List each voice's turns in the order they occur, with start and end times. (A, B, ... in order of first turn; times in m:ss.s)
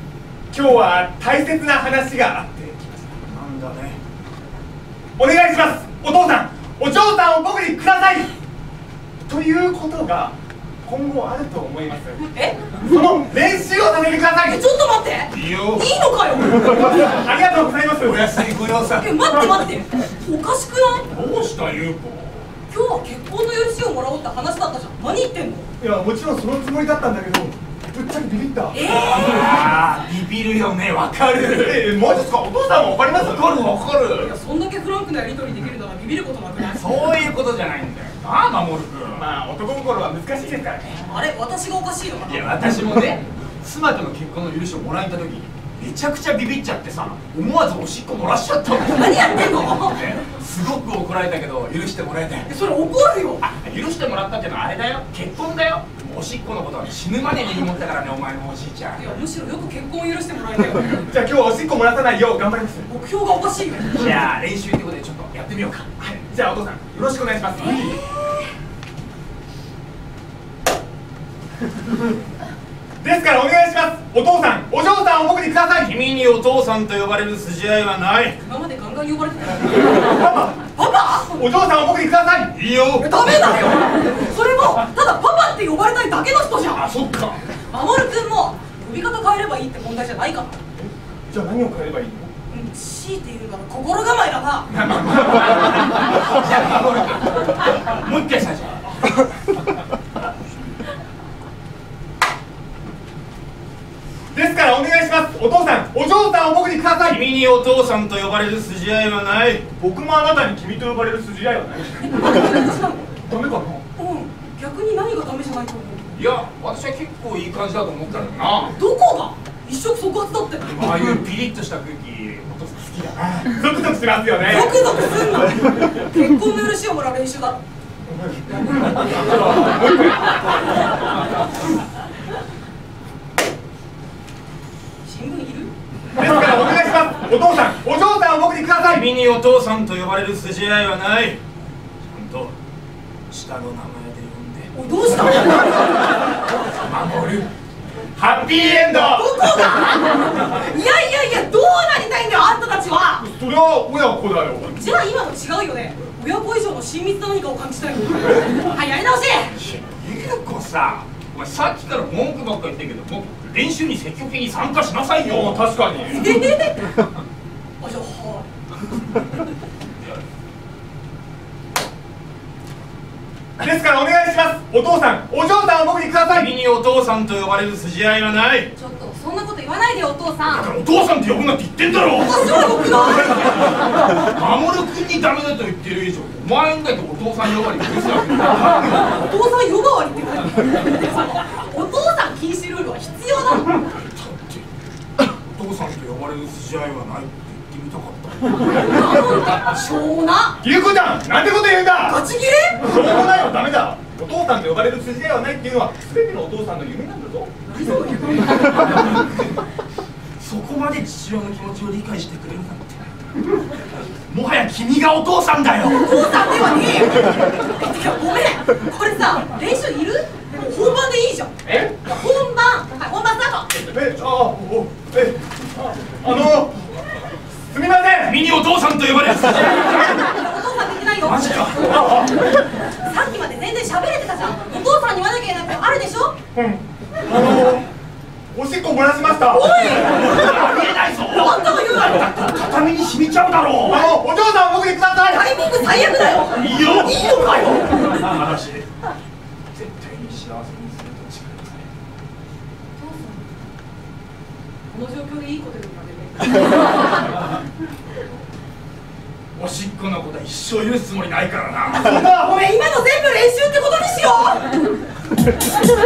0:00.5-0:03.0 A
0:03.3-0:04.0 B
0:05.2-0:08.3 A
0:09.3-0:12.2 A
0:12.3-0:12.6 C
0:12.8-0:14.6 A
0:14.4-0:17.2 C
0:15.3-0:15.9 B
0:16.7-0:18.2 A
0:18.0-0:19.1 B
0:18.9-0:21.1 C
0:21.1-0:22.5 B
0:22.7-0:25.7 C
0:25.8-0:28.9 A
0:28.7-0:29.7 C
0:28.8-0:31.9 B
0:31.6-0:33.8 A
0:33.1-0:34.3 B
0:34.2-0:36.9 C
0:36.8-0:39.3 B
0:39.1-0:41.0 A
0:41.0-0:42.6 C
0:42.2-0:52.5 B
0:48.9-0:50.0 C
0:52.5-0:53.4 C
0:53.4-0:59.2 B
0:58.9-1:01.0 C
1:01.1-1:02.9 A
1:02.9-1:04.1 C
1:03.9-1:06.2 B
1:06.2-1:08.0 A
1:07.6-1:08.4 C
1:13.0-1:16.0 A
1:15.8-1:18.4 B
1:18.4-1:21.4 C
1:20.0-1:20.6 A
1:21.3-1:22.6 A
1:22.5-1:23.1 B
1:23.0-1:26.9 C
1:26.7-1:27.4 B
1:27.7-1:30.6 C
1:30.8-1:32.3 A
1:32.5-1:34.7 C
1:34.7-1:38.9 B
1:44.3-1:47.2 A
1:47.0-1:49.7 B
1:49.7-1:52.2 A
1:52.0-1:53.2 C
1:53.2-1:53.8 A
1:54.0-1:56.2 C
1:56.1-1:58.8 B
1:58.8-2:00.9 C
2:00.7-2:03.6 B
2:03.4-2:04.9 A
2:04.4-2:07.6 C
2:08.1-2:10.3 A
2:15.0-2:15.7 C
2:16.2-2:19.1 A
2:18.9-2:21.4 B
2:22.0-2:22.5 B
2:23.3-2:24.7 B
2:24.7-2:26.0 C
2:26.8-2:27.5 B
2:28.2-2:29.4 A
2:28.9-2:33.3 C
2:33.2-2:34.9 A
2:34.8-2:39.6 C
2:39.6-2:45.8 B
2:45.2-2:46.3 A
2:46.0-2:46.9 C
2:47.8-2:48.5 C
2:53.6-2:56.5 A
2:56.3-2:58.7 B
2:58.8-3:00.7 C
3:00.5-3:03.6 B
3:02.2-3:03.6 C
3:04.2-3:09.2 B
3:08.9-3:13.8 C
3:13.9-3:14.6 B
3:15.3-3:19.0 B
3:18.7-3:20.6 C
3:20.6-3:22.2 A
3:22.1-3:22.8 C
3:22.8-3:27.5 A
3:27.7-3:28.7 C
3:29.0-3:29.3 B
3:30.4-3:33.0 B
3:34.3-3:36.3 B
3:35.9-3:43.7 C
3:43.8-3:46.8 A
3:47.7-3:48.4 A
3:48.2-3:50.2 B
3:50.1-3:51.8 C
3:51.2-3:52.1 B
3:51.8-3:52.3 A
3:52.9-3:56.4 C
3:56.5-3:57.9 A
3:58.5-3:59.8 A
3:59.5-4:00.4 C
3:59.8-4:04.1 B
4:01.2-4:02.3 C
4:03.9-4:05.5 A
4:05.2-4:08.2 C
4:06.5-4:08.9 B
4:09.7-4:11.8 B
4:13.0-4:13.6 C
4:14.9-4:17.3 C
4:19.6-4:22.1 B
4:22.0-4:22.6 A
4:22.2-4:24.6 C